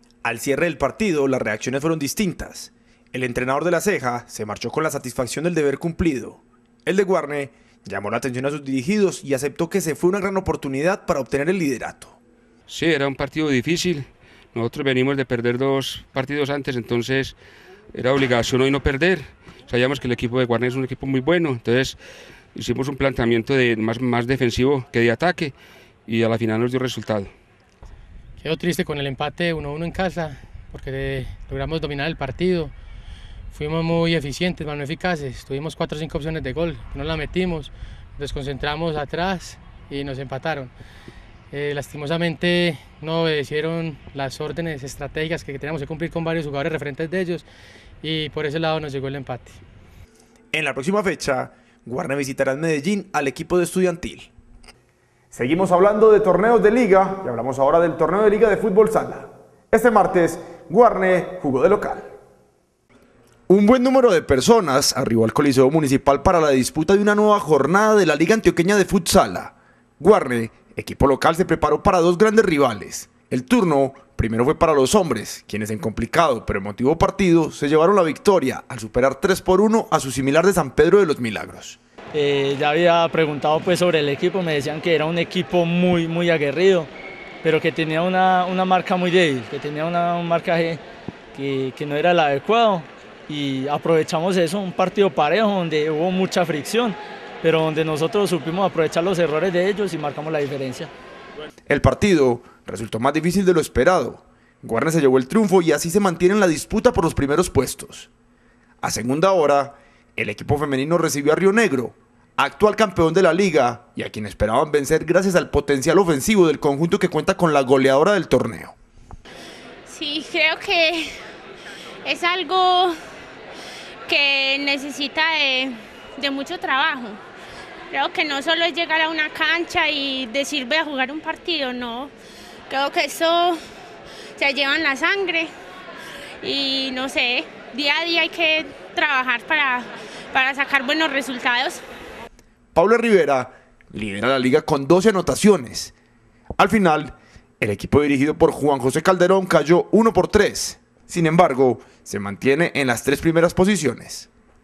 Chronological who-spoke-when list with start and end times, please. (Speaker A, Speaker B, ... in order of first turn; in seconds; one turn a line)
Speaker A: 0.2-12.2
Speaker B: 12.7-17.4
Speaker B: 17.9-22.0
Speaker B: 22.5-25.5
Speaker B: 26.1-27.3
Speaker C: 28.4-32.7
Speaker C: 33.5-40.7
Speaker C: 41.5-47.5
Speaker C: 48.0-49.6
Speaker A: 50.5-54.3
Speaker A: 55.3-62.1
Speaker A: 63.5-81.8
Speaker D: 82.1-86.9
Speaker D: 87.4-90.8
Speaker D: 91.3-100.9
Speaker A: 101.7-108.1
Speaker A: 108.8-118.7
Speaker E: 119.9-121.1
Speaker E: 122.0-123.0
Speaker E: 124.1-127.2
Speaker E: 127.9-132.1
Speaker E: 132.7-133.6
Speaker E: 134.4-135.5
Speaker E: 136.4-141.8
Speaker A: 142.7-145.9
Speaker A: 146.6-154.3